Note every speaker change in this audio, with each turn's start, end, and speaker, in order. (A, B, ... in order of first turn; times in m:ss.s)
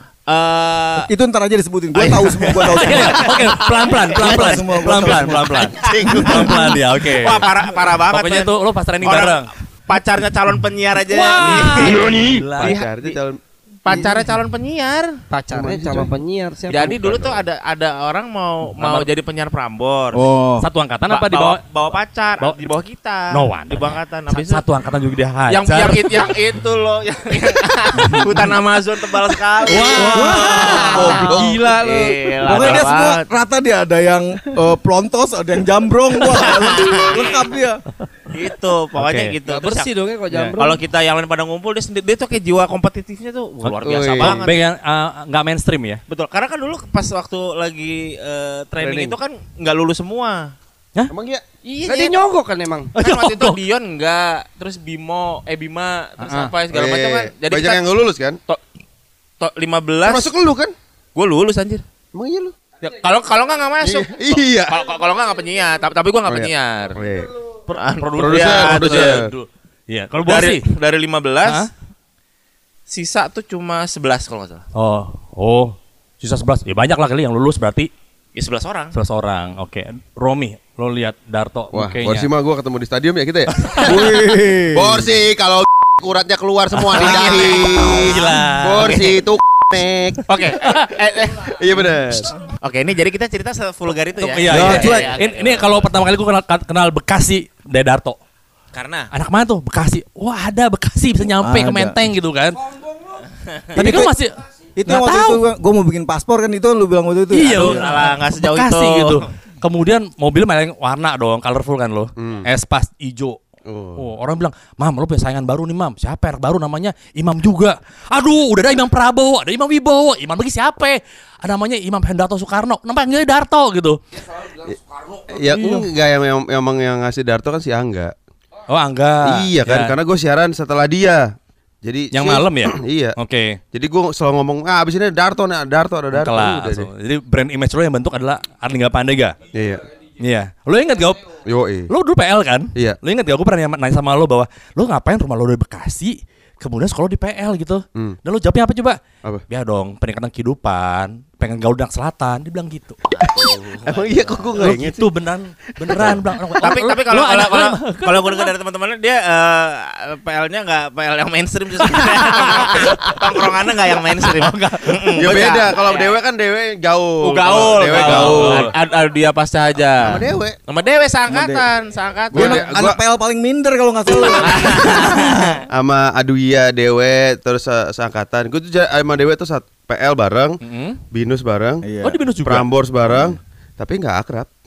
0:00.3-0:01.1 A
0:01.1-0:03.4 B
0:02.0-0:04.0 A
0:02.6-0:07.4 C
0:04.2-0:05.5 B
0:04.2-0:05.1 D
0:05.7-0:06.7 D
0:06.0-0:13.2 A
0:08.1-0:09.5 C
0:11.1-0:12.8 C
0:11.6-0:14.1 D
0:13.8-0:15.2 A
0:15.3-0:17.4 E
0:15.5-0:16.1 D
0:16.7-0:20.2 A
0:18.8-0:19.1 C
0:20.1-0:20.7 B
0:20.6-0:21.6 C
0:21.1-0:24.6 A
0:23.3-0:26.2 C
0:25.5-0:33.2 A
0:29.7-0:31.4 C
0:29.9-0:31.6 B
0:31.3-0:32.3 E
0:32.4-0:37.8 B
0:36.3-0:37.4 A
0:38.3-0:39.9 A
0:39.0-0:39.4 C
0:39.5-0:40.8 E
0:40.3-0:40.6 C
0:40.6-0:44.6 A
0:43.6-0:46.0 C
0:43.8-0:44.4 D
0:46.1-0:50.5 A
0:48.8-0:49.2 D
0:51.1-0:51.4 D
0:51.6-0:52.9 E
0:51.8-0:52.2 A
0:53.0-0:53.6 C
0:53.0-0:57.9 A
0:56.2-0:56.5 C
0:56.7-0:58.4 D
0:59.4-1:00.3 A
1:00.0-1:00.8 D
1:01.2-1:01.8 A
1:02.1-1:02.5 D
1:02.8-1:07.1 A
1:03.8-1:04.8 D
1:06.2-1:07.3 D
1:07.7-1:09.2 A
1:08.0-1:10.6 C
1:08.2-1:09.3 D
1:10.2-1:11.7 A
1:12.9-1:14.6 A
1:14.7-1:17.9 C
1:18.4-1:18.9 A
1:18.9-1:22.3 C
1:21.7-1:30.2 D
1:23.6-1:23.9 C
1:23.8-1:25.1 B
1:26.7-1:29.0 C
1:26.9-1:28.1 A
1:28.8-1:29.2 A
1:30.3-1:31.6 A
1:31.0-1:32.4 D
1:32.6-1:35.8 A
1:34.3-1:38.2 C
1:34.5-1:35.1 B
1:38.7-1:39.1 A
1:39.1-1:42.6 C
1:41.4-1:42.1 B
1:43.8-1:44.1 B
1:43.8-1:44.4 C
1:44.8-1:48.0 B
1:44.9-1:45.4 C
1:47.3-1:53.4 C
1:47.5-1:49.2 A
1:52.2-1:52.5 D
1:53.7-1:54.0 D
1:54.0-2:04.0 C
2:05.3-2:08.1 D
2:08.7-2:09.9 C
2:09.2-2:13.2 D
2:12.1-2:13.6 C
2:13.7-2:16.9 D
2:16.1-2:19.4 C
2:19.5-2:19.8 D
2:20.2-2:21.2 C
2:21.5-2:21.9 D
2:21.9-2:29.0 C
2:29.5-2:33.0 C
2:33.2-2:34.4 A
2:33.4-2:35.0 D
2:34.6-2:38.5 C
2:35.8-2:36.2 D
2:36.6-2:46.2 A
2:42.0-2:43.1 C
2:44.3-2:45.3 C
2:45.2-2:48.7 D
2:47.2-2:52.8 A
2:47.9-2:48.7 C
2:50.0-2:50.6 D
2:51.3-2:51.7 B
2:52.3-2:55.6 B
2:52.3-2:53.0 D
2:54.4-2:55.4 A
2:55.7-3:00.6 D
3:00.6-3:01.0 C
3:01.1-3:01.8 D
3:01.8-3:02.2 B
3:02.0-3:02.7 C
3:02.4-3:04.5 D